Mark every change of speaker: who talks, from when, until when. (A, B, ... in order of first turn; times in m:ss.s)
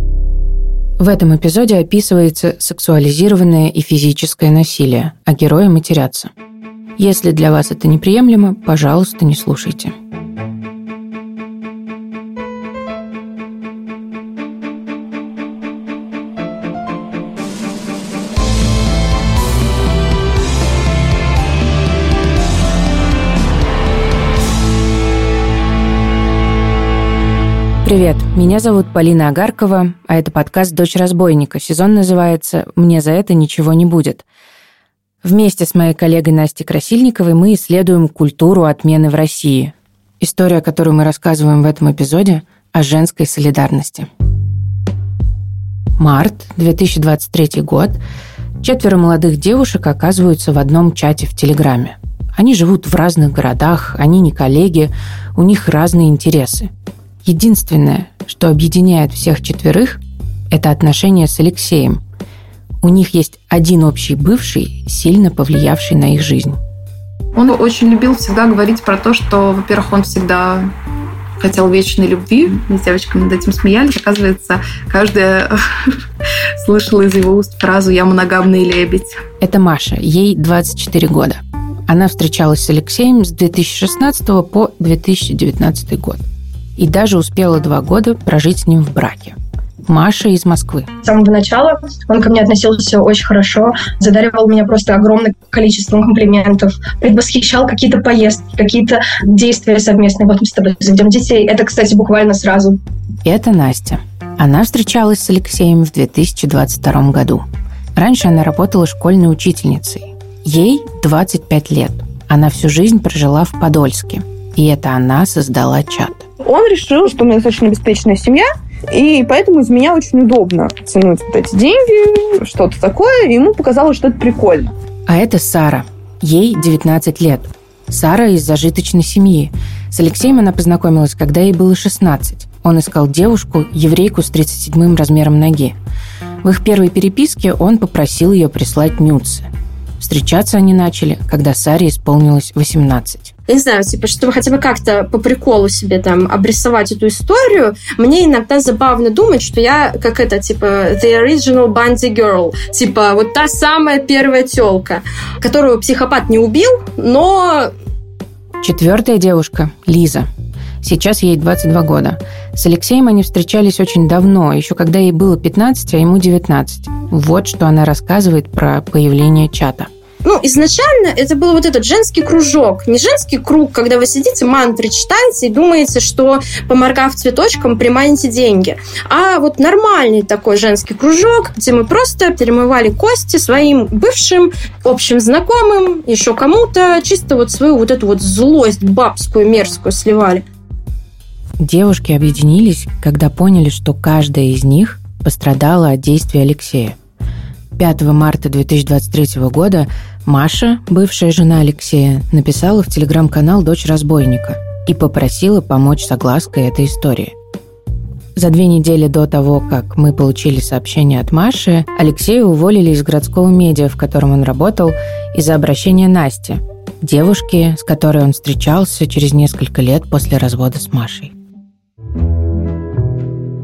0:01.0-0:06.3 A
0:07.0-0:09.9 A
0:27.8-0:34.2 A
0:35.2-0:44.1 A
0:46.0-0:48.0 A
0:48.6-0:56.7 A
0:57.2-1:02.0 A
1:02.8-1:06.6 A
1:07.4-1:10.7 B
1:11.4-1:16.0 B
1:16.6-1:19.2 B
1:19.4-1:26.2 A
1:26.8-1:30.9 A
1:31.0-1:42.8 C
1:43.2-1:56.3 A
1:56.4-2:04.7 D
2:05.1-2:15.8 A
2:16.4-2:19.5 A
2:20.0-2:23.3 A
2:23.5-2:37.7 E
2:38.6-2:40.3 A
2:40.8-2:49.9 A
2:50.2-3:10.4 E
3:11.6-3:17.0 A
3:17.8-3:27.3 A
3:28.4-3:41.3 A